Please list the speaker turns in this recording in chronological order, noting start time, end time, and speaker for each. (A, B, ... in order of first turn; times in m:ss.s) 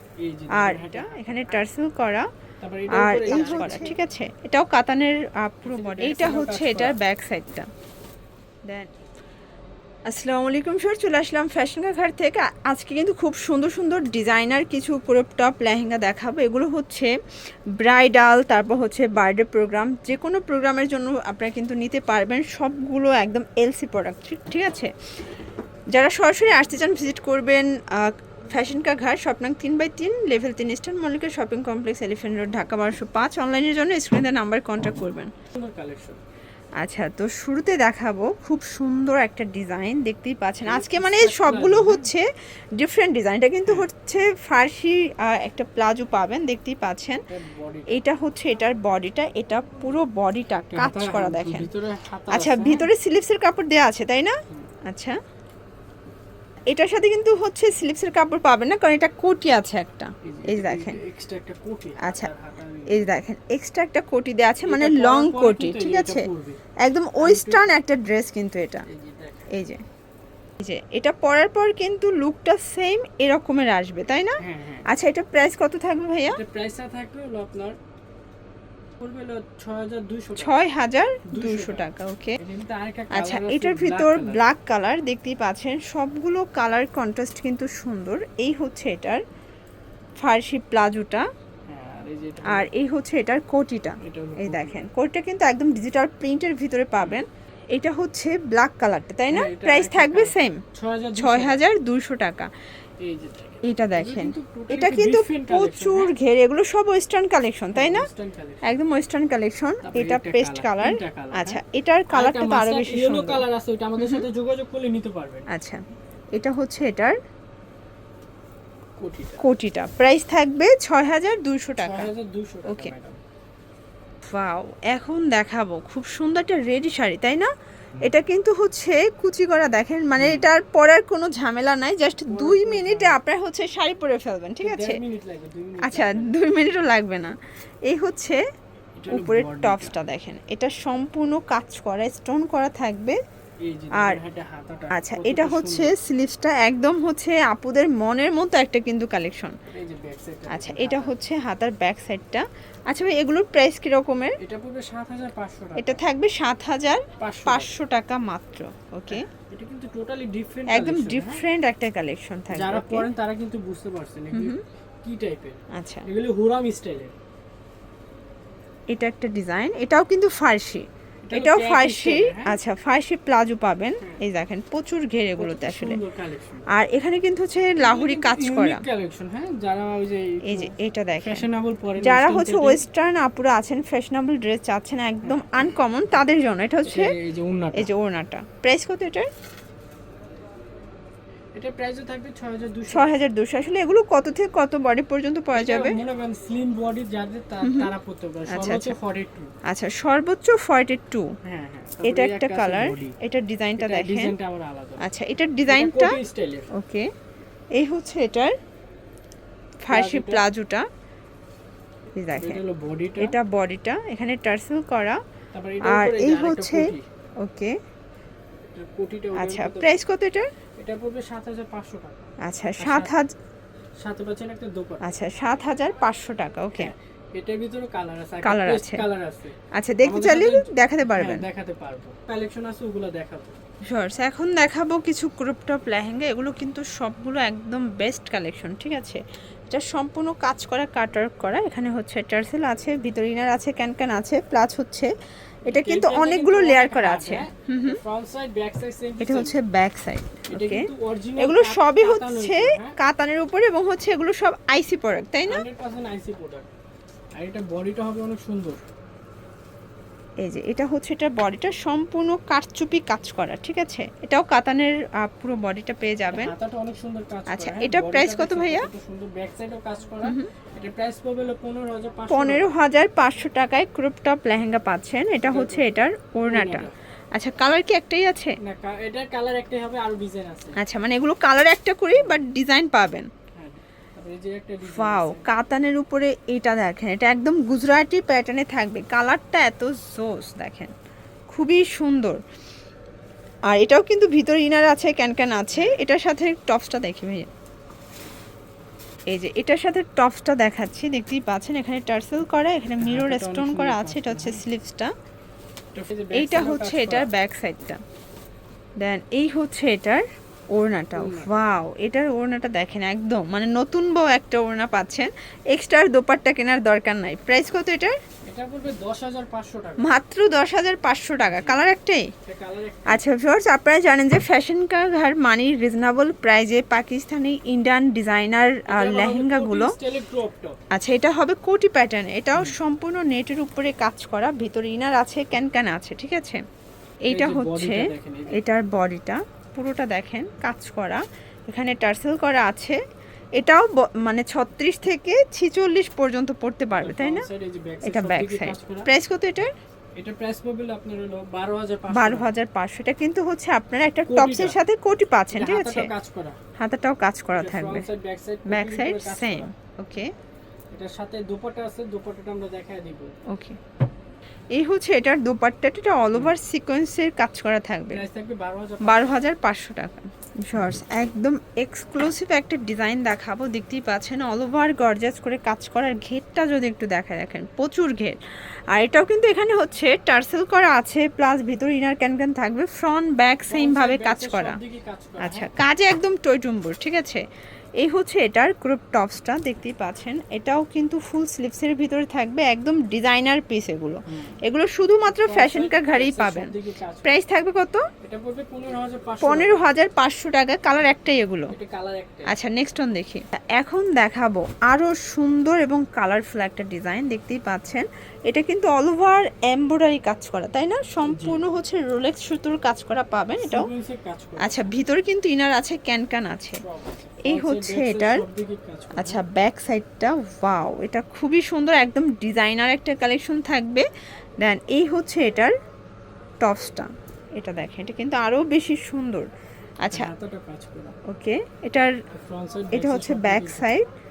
0:00.2-0:01.6 A
0:00.5-0:02.3 B
0:02.6-0:04.0 A
0:02.9-0:07.7 B
0:05.6-0:07.0 A
0:08.6-0:08.9 B
0:10.1-0:17.1 B
0:17.8-0:24.9 B
0:25.9-0:35.3 B
0:35.5-0:36.2 A
0:36.8-0:47.2 B
0:40.6-0:42.1 A
0:47.3-0:48.0 A
0:47.9-0:51.7 B
0:50.7-0:52.9 A
0:52.3-0:55.2 B
0:54.5-0:54.7 A
0:56.7-1:01.0 B
1:00.2-1:03.2 A
1:02.0-1:02.3 B
1:02.9-1:06.3 B
1:04.6-1:06.6 A
1:06.8-1:08.9 B
1:07.2-1:07.7 A
1:08.9-1:09.5 A
1:09.5-1:09.8 B
1:10.6-1:16.4 B
1:14.4-1:14.9 A
1:16.3-1:17.8 A
1:19.0-1:20.7 A
1:20.4-1:22.4 B
1:21.3-1:24.4 A
1:23.1-1:29.2 B
1:30.2-1:31.3 B
1:31.7-1:32.7 A
1:32.4-1:40.6 B
1:34.0-1:34.9 A
1:37.0-1:37.2 A
1:39.3-1:41.6 A
1:41.2-1:42.5 B
1:43.0-1:46.1 A
1:43.6-1:48.1 B
1:47.7-1:48.7 A
1:48.6-1:53.4 B
1:49.8-1:55.5 A
1:54.0-1:54.2 B
1:55.5-1:55.8 B
1:56.3-1:57.2 B
1:59.0-1:59.4 A
1:59.4-2:02.1 B
2:01.8-2:03.2 A
2:02.7-2:02.9 B
2:04.3-2:07.5 B
2:08.0-2:15.0 B
2:10.2-2:10.5 A
2:12.3-2:13.2 A
2:14.6-2:16.8 A
2:15.8-2:18.4 B
2:19.0-2:20.0 A
2:19.1-2:23.2 B
2:23.6-2:26.0 A
2:23.9-2:24.2 B
2:24.9-2:29.6 B
2:29.7-2:31.2 A
2:30.5-2:34.4 B
2:34.4-2:36.0 A
2:35.8-2:39.2 B
2:37.2-2:37.7 A
2:39.1-2:41.4 A
2:40.7-2:43.1 B
2:42.5-2:47.1 A
2:44.3-2:44.6 B
2:45.7-2:46.1 B
2:48.9-2:56.0 B
2:51.3-2:52.6 A
2:54.0-2:54.2 A
2:55.4-2:56.7 A
2:56.7-2:58.8 B
2:57.8-3:02.9 A
3:00.4-3:01.4 B
3:02.0-3:07.1 B
3:05.2-3:05.6 A
3:06.8-3:07.9 A
3:07.7-3:09.3 B
3:11.6-3:13.2 A
3:12.9-3:16.0 B
3:15.5-3:19.5 A
3:17.6-3:17.9 B
3:18.5-3:19.0 B
3:19.6-3:21.3 B
3:21.4-3:23.2 A
3:22.0-3:24.3 B
3:23.8-3:25.0 A
3:25.0-3:26.2 B
3:25.7-3:26.7 A
3:26.7-3:27.1 B
3:27.8-3:28.6 B
3:29.8-3:30.9 B
3:29.9-3:30.5 A
3:32.2-3:32.6 B
3:32.3-3:33.4 A
3:33.2-3:35.2 B
3:35.5-3:37.0 A
3:35.8-3:37.8 B
3:38.7-3:39.9 A
3:39.4-3:40.5 B
3:40.8-3:43.2 A
3:42.4-3:43.3 B
3:44.0-3:45.1 A
3:45.0-3:46.9 B
3:46.8-3:53.6 A
3:48.4-3:49.0 B
3:49.7-3:51.4 B
3:53.9-4:05.1 B
4:05.7-4:08.0 B
4:05.7-4:09.6 A
4:09.2-4:15.6 B
4:10.5-4:13.0 A
4:15.4-4:16.7 A
4:17.4-4:18.8 A
4:20.4-4:26.5 B
4:26.3-4:32.8 A
4:27.5-4:28.9 B
4:30.2-4:30.5 B
4:32.3-4:38.6 B
4:35.4-4:37.0 A
4:38.6-4:40.8 A
4:40.8-4:43.3 B
4:42.2-4:42.4 A
4:43.5-4:45.5 A
4:44.8-4:50.9 B
4:51.5-4:52.4 B
4:53.7-4:57.5 B
4:55.7-4:56.0 A
4:59.3-5:05.1 B
5:03.0-5:04.6 A
5:05.9-5:07.3 A
5:06.3-5:08.0 B
5:09.0-5:18.2 B
5:11.2-5:11.5 A
5:18.4-5:20.2 A
5:20.0-5:22.3 B
5:21.5-5:21.9 A
5:22.4-5:23.2 A
5:23.1-5:30.0 B
5:28.9-5:30.8 A
5:30.9-5:36.6 B
5:37.2-5:43.0 B
5:37.3-5:38.6 A
5:43.6-5:47.5 B
5:47.0-5:49.1 A
5:48.0-5:49.7 B
5:50.2-5:52.5 A
5:52.1-5:56.1 B
5:54.3-5:54.8 A
5:55.5-5:56.6 A
5:56.8-5:58.1 B
5:57.5-5:59.7 A
5:58.7-6:00.3 B
6:00.9-6:03.3 A
6:03.5-6:03.8 B
6:04.7-6:08.2 B
6:08.1-6:09.4 A
6:09.0-6:18.4 B
6:18.9-6:24.8 B
6:23.7-6:25.7 A
6:25.4-6:27.4 B
6:28.0-6:38.0 B
6:34.3-6:34.6 A
6:35.3-6:37.4 A
6:38.2-6:39.9 A
6:39.4-6:41.7 B
6:41.7-6:42.6 A
6:42.5-6:53.9 B
6:51.2-6:51.6 A
6:53.6-6:54.9 A
6:54.6-6:56.8 B
6:56.8-6:59.4 A
6:57.4-6:58.5 B
6:59.2-7:04.1 B
7:04.6-7:05.8 B
7:06.6-7:09.5 B
7:10.0-7:10.3 B
7:10.1-7:11.2 A
7:11.3-7:12.2 B
7:12.3-7:13.9 A
7:12.9-7:14.0 B